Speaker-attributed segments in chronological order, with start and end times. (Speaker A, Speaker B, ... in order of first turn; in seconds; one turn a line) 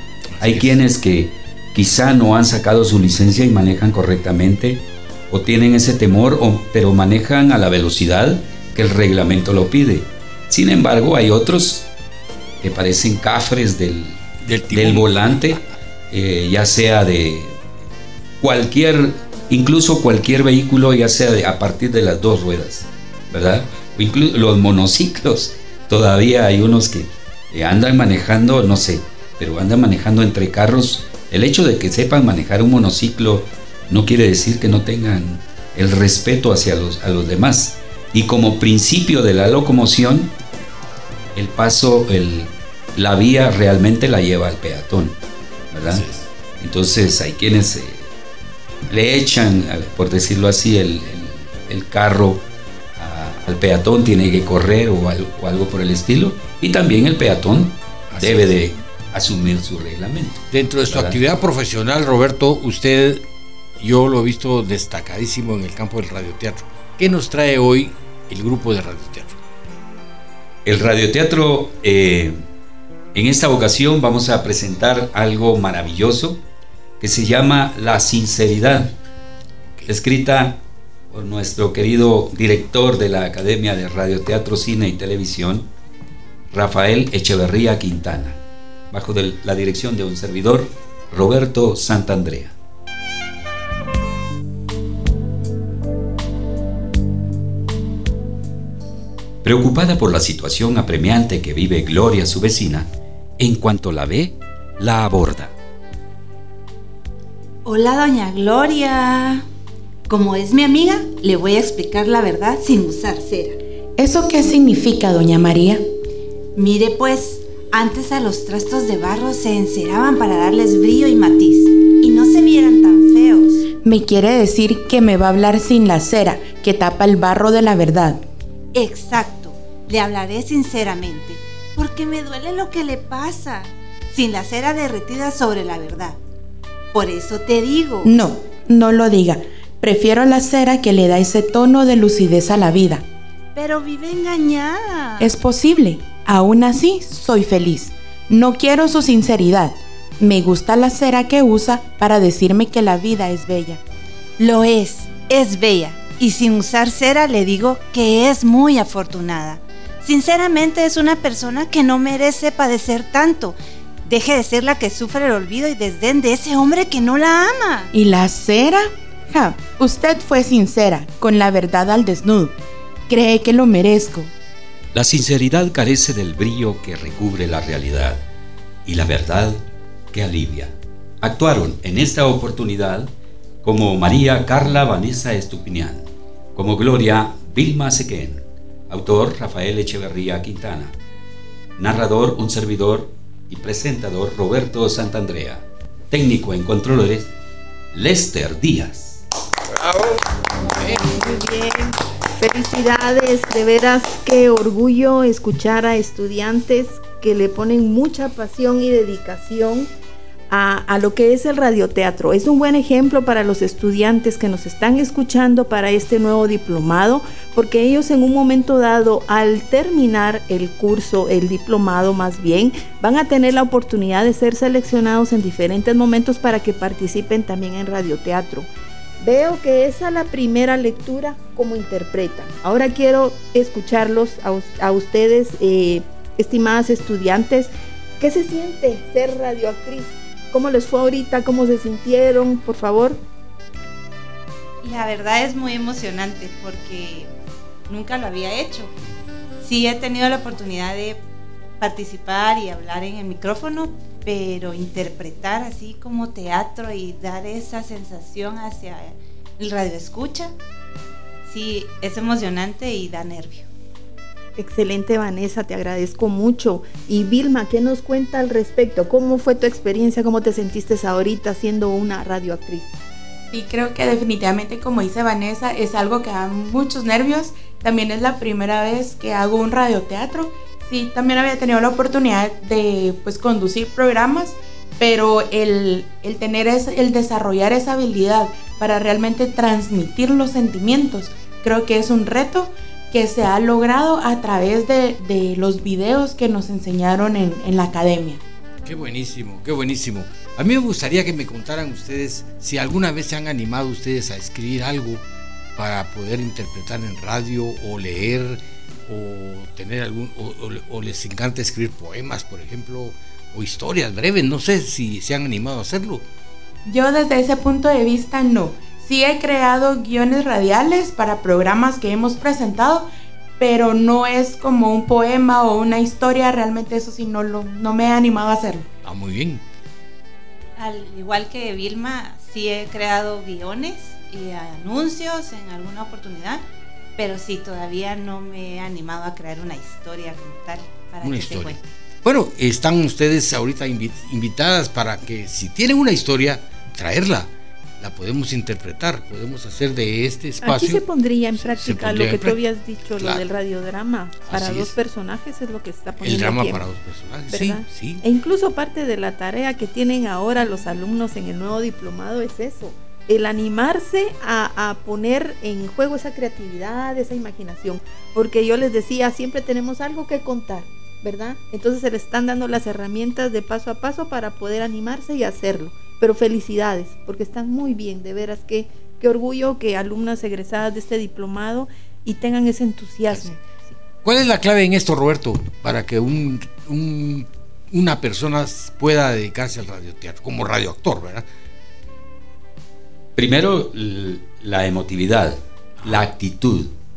Speaker A: 0.4-0.8
Speaker B: 0.4-11.9
Speaker B: 12.6-17.6
Speaker A: 14.4-15.2
Speaker B: 18.4-40.3
Speaker B: 41.3-45.1
Speaker B: 45.7-46.1
Speaker A: 45.9-46.2
Speaker B: 46.6-48.1
Speaker B: 48.9-52.4
Speaker B: 53.0-61.2
Speaker A: 58.1-58.6
Speaker A: 60.5-63.2
Speaker A: 63.8-69.4
Speaker B: 70.6-72.4
Speaker B: 73.1-76.4
Speaker B: 77.0-78.9
Speaker B: 79.9-85.7
Speaker B: 86.5-88.4
Speaker B: 88.9-92.5
Speaker B: 99.4-102.9
Speaker B: 103.4-105.5
Speaker C: 107.6-109.5
Speaker C: 110.1-113.6
Speaker D: 114.0-115.8
Speaker C: 116.5-123.7
Speaker D: 123.8-128.2
Speaker C: 128.7-136.2
Speaker C: 136.9-138.1
Speaker D: 138.0-143.0
Speaker C: 143.5-145.3
Speaker D: 145.2-153.8
Speaker C: 154.4-167.9
Speaker D: 167.9-172.5
Speaker D: 173.1-174.3
Speaker B: 174.9-178.2
Speaker B: 178.9-183.1
Speaker B: 183.6-190.9
Speaker B: 191.8-197.3
Speaker B: 197.9-199.2
Speaker A: 199.8-200.2
Speaker A: 200.8-201.1
Speaker E: 201.0-209.9
Speaker E: 210.5-228.7
Speaker E: 229.2-243.2
Speaker C: 244.8-247.3
Speaker C: 247.9-248.9
Speaker C: 249.6-251.2
Speaker C: 251.8-260.5
Speaker C: 261.5-263.7
Speaker E: 264.6-272.9
Speaker D: 273.5-298.4
Speaker A: 298.8-305.2
Speaker A: 305.8-316.2
Speaker D: 316.8-323.1
Speaker D: 323.6-328.9
Speaker A: 329.0-329.6
Speaker C: 330.8-336.6
Speaker C: 337.2-341.8
Speaker A: 341.2-351.0
Speaker E: 350.6-356.8
Speaker A: 351.6-352.6
Speaker A: 353.2-353.4
Speaker A: 354.5-354.9
Speaker A: 356.2-358.2
Speaker E: 357.5-383.6
Speaker A: 384.2-391.5
Speaker B: 393.4-396.9